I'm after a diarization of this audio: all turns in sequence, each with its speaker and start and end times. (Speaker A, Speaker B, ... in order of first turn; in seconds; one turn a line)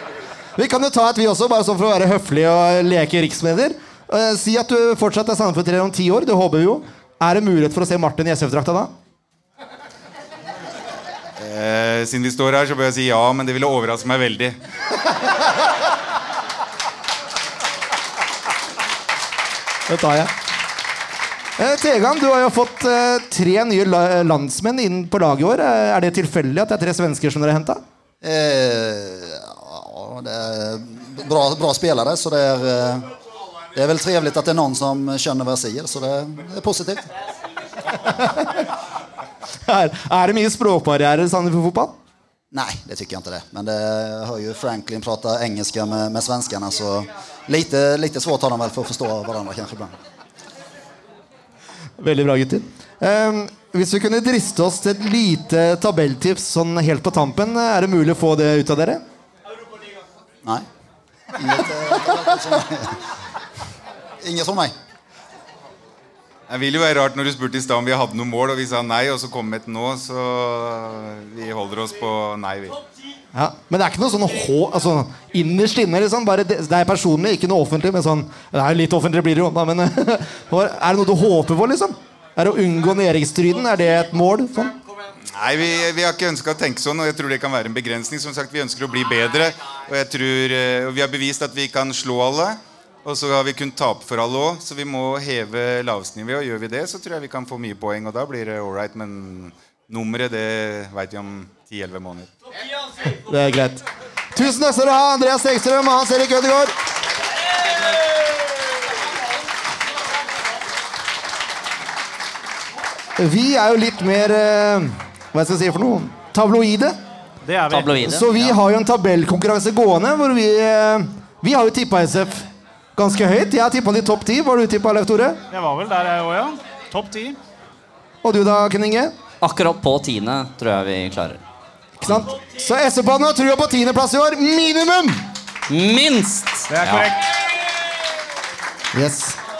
Speaker A: 0.6-8.9
Speaker B: 11.4-14.6
Speaker A: 19.9-20.3
Speaker A: 21.6-27.8
Speaker C: 28.2-33.1
Speaker C: 33.7-37.1
Speaker A: 38.1-38.6
Speaker A: 39.6-41.9
Speaker C: 42.5-50.0
Speaker A: 52.0-59.0
Speaker C: 61.3-63.0
Speaker C: 64.2-64.7
Speaker B: 66.5-72.8
Speaker A: 73.3-84.8
Speaker B: 85.2-102.3
Speaker A: 103.0-106.7
Speaker A: 113.2-117.0
Speaker D: 117.4-118.2
Speaker E: 117.7-118.5
Speaker A: 118.0-125.4
Speaker D: 125.5-127.4
Speaker A: 128.2-129.1
Speaker E: 129.4-131.4
Speaker A: 132.0-135.2
Speaker E: 135.7-137.1
Speaker D: 136.7-137.2
Speaker A: 138.9-139.4